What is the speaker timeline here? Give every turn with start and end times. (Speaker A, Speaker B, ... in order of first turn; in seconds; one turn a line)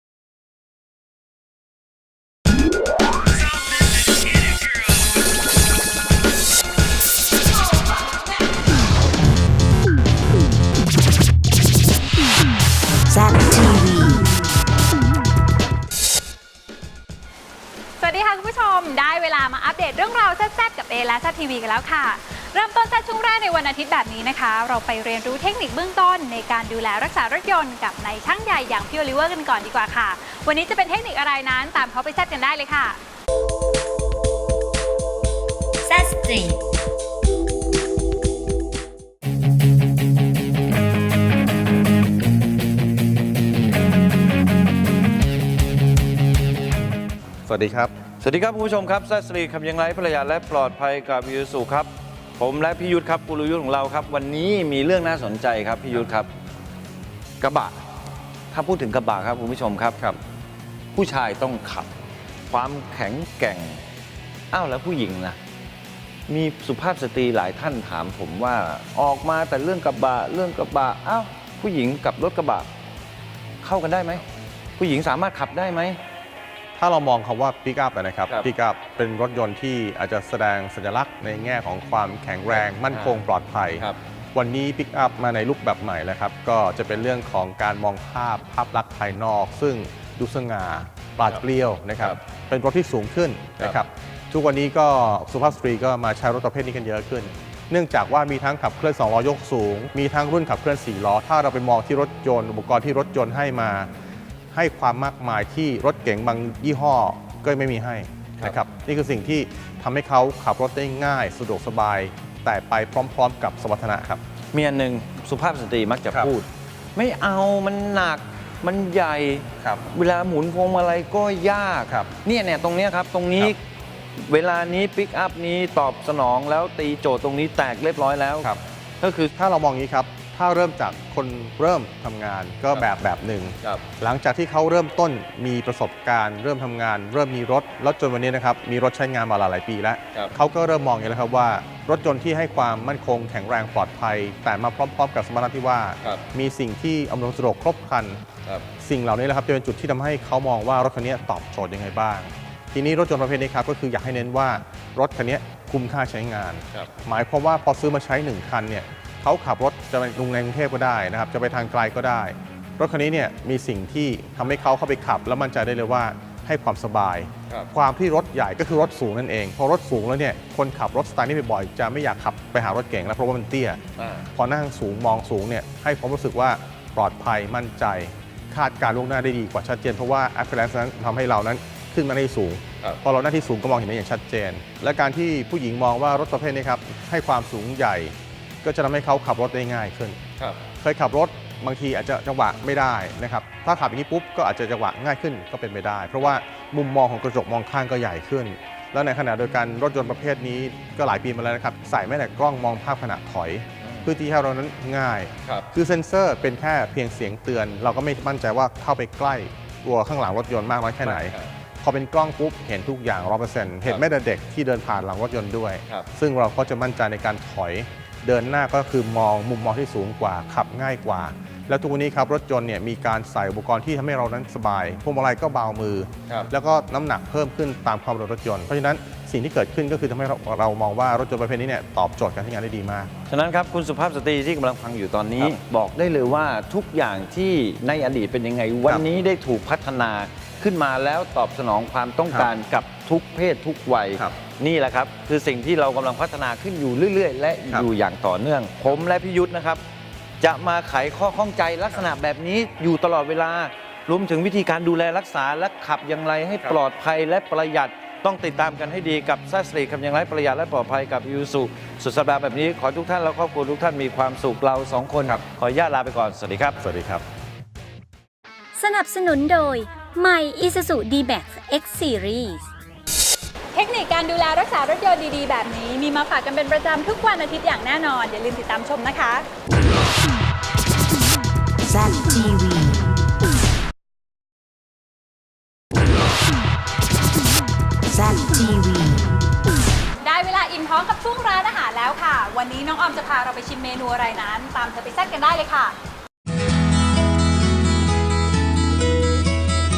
Speaker A: 13.1-14.2
Speaker B: 18.0-33.0
Speaker C: 35.9-36.4
Speaker D: 47.5-47.9
Speaker E: 48.2-56.3
Speaker E: 57.4-57.8
Speaker E: 58.5-60.0
Speaker E: 60.9-61.9
Speaker E: 62.5-63.8
Speaker E: 64.5-65.4
Speaker E: 66.3-72.7
Speaker E: 73.6-74.2
Speaker E: 74.8-76.0
Speaker D: 76.8-103.9
Speaker D: 104.5-114.2
Speaker E: 114.5-123.6
Speaker D: 119.6-119.8
Speaker D: 121.9-122.1
Speaker E: 124.2-128.5
Speaker E: 129.0-129.3
Speaker D: 129.4-148.2
Speaker D: 148.8-173.8
Speaker D: 174.3-190.2
Speaker D: 190.7-233.1
Speaker E: 233.3-249.8
Speaker E: 250.4-266.8
Speaker D: 266.8-267.2
Speaker C: 268.8-272.7
Speaker B: 273.7-279.4
Speaker A: 281.9-283.0
Speaker A: 288.1-289.3
Speaker B: 290.2-295.9